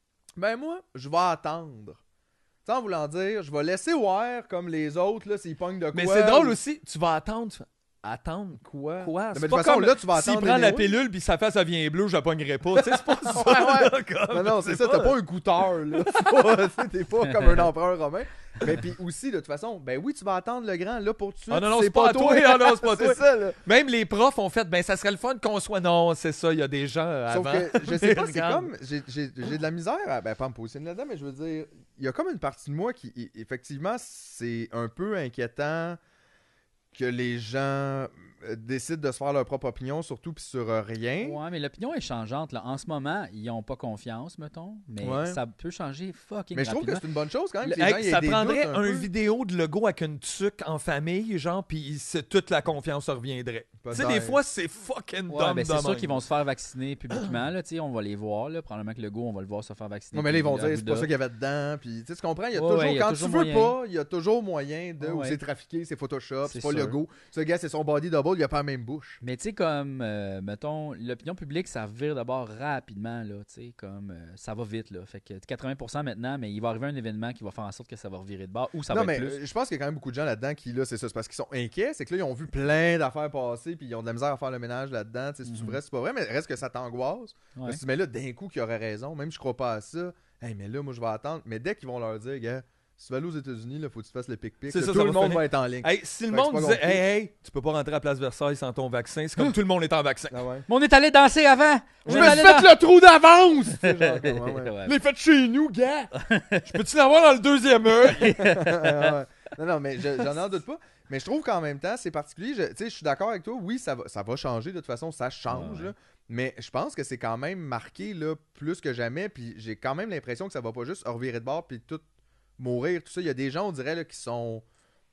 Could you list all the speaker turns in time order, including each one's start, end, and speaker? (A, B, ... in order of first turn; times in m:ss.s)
0:00.4-0:02.0 A
0:02.6-0:06.6 A
0:05.9-0:15.2 B
0:08.9-0:11.0 A
0:12.7-0:23.6 A
0:17.2-0:17.6 C
0:21.5-0:28.7 B
0:27.3-0:36.0 A
0:36.9-0:41.4 A
0:41.2-0:47.0 C
0:45.0-0:45.4 A
0:46.5-0:49.1 A
0:47.7-0:56.2 B
0:53.8-0:54.4 A
0:55.3-1:01.1 C
1:00.1-1:09.2 A
1:02.5-1:03.8 C
1:05.0-1:05.4 C
1:06.4-1:07.0 C
1:09.2-1:19.4 C
1:18.9-1:37.0 A
1:25.4-1:25.8 C
1:34.7-1:40.4 B
1:40.3-1:40.7 A
1:40.7-1:42.7 C
1:42.0-1:42.4 B
1:42.0-1:46.1 A
1:43.8-1:44.9 C
1:46.2-1:46.7 C
1:46.6-1:48.4 B
1:48.0-1:49.1 C
1:48.4-2:02.0 A
1:55.5-1:55.9 C
2:02.6-2:04.6 A